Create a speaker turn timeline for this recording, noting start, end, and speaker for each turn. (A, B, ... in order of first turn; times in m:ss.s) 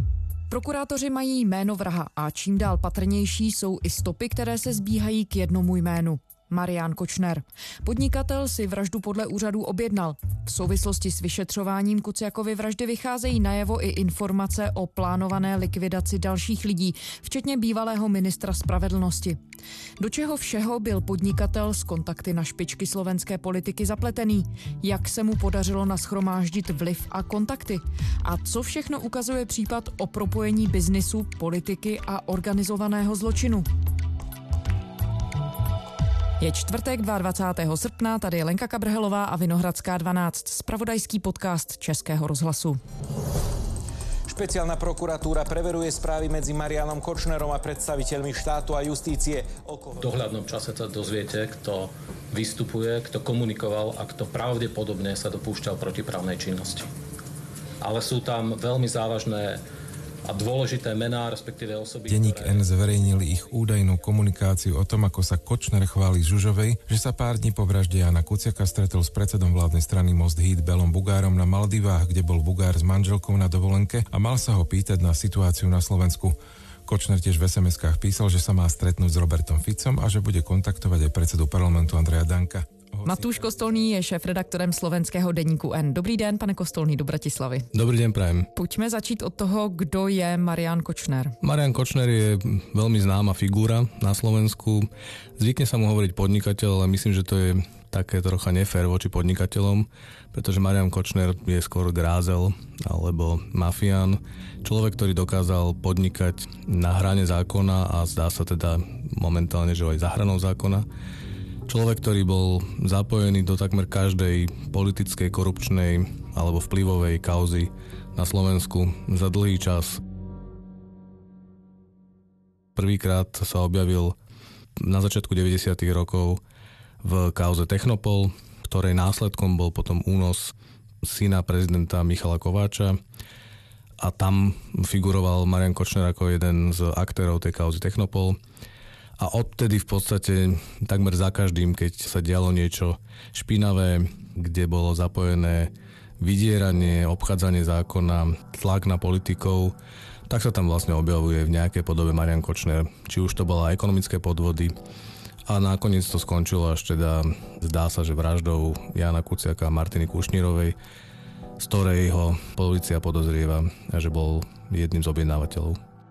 0:00.5-0:19.4 A
0:20.0-0:33.6 A
0:36.4-0:42.8 A
0:44.3-0:50.2 B
0:50.0-0:56.9 C
0:57.8-0:59.6 C
1:00.2-1:02.7 C
1:02.1-1:16.4 D
1:16.9-1:23.2 D
1:23.0-1:27.7 A
1:27.7-1:28.5 E
1:28.5-1:31.4 A
1:31.4-1:50.8 E
1:51.7-2:00.0 E
2:02.8-2:04.2 E
2:04.8-2:06.4 E
2:07.0-2:13.0 E
2:14.0-2:18.4 E
2:19.2-2:29.8 E
2:30.3-2:34.7 E
2:35.4-2:40.8 E
2:41.6-2:45.8 E